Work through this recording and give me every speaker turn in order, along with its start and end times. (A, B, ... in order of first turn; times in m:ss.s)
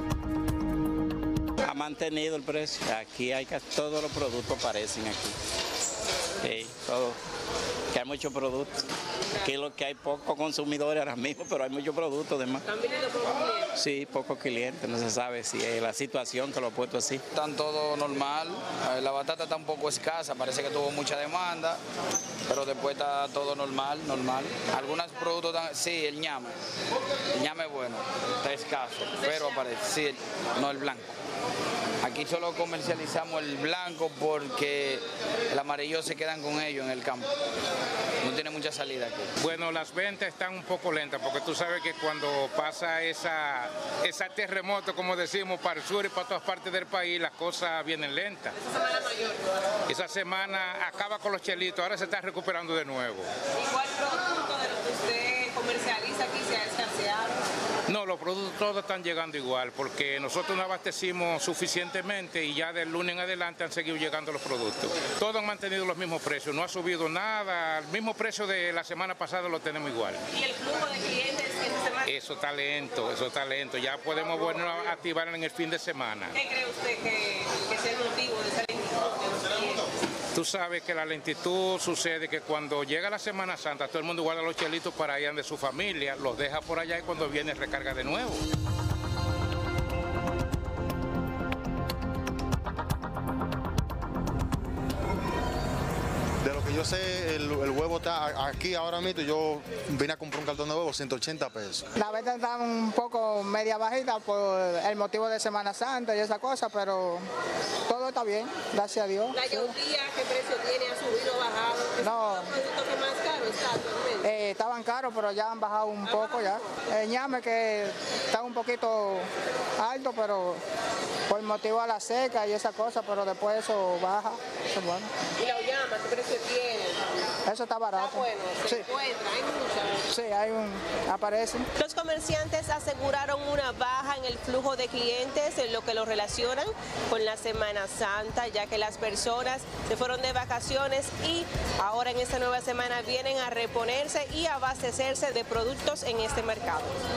0:01.6-0:05.4 A
0:06.4-0:07.2 A
0:07.9-0:08.8 A
0:09.4-0:12.6 A
0:12.7-0:13.6 B
0:13.7-0:17.2 A
0:17.3-0:21.8 C
0:22.4-0:26.6 C
0:27.3-0:31.2 C
0:32.0-0:37.3 C
0:38.2-0:39.3 C
0:39.4-0:48.6 D
0:48.7-0:49.4 B
0:49.9-0:53.3 D
0:53.6-0:57.4 B
0:57.9-1:10.2 D
1:10.3-1:12.0 B
1:12.0-1:16.4 D
1:16.4-1:19.9 B
1:20.3-1:28.4 D
1:36.4-1:41.8 E
1:42.0-1:47.3 F
1:47.9-1:49.8 F
1:49.3-1:54.2 B
1:52.0-1:52.6 F
1:54.2-1:59.3 F
1:56.1-1:56.7 B
1:59.8-2:00.6 F
2:01.3-2:05.1 F
2:05.4-2:07.0 B
2:07.5-2:08.9 F
2:08.0-2:10.0 B
2:10.1-2:11.7 F
2:11.8-2:27.0 B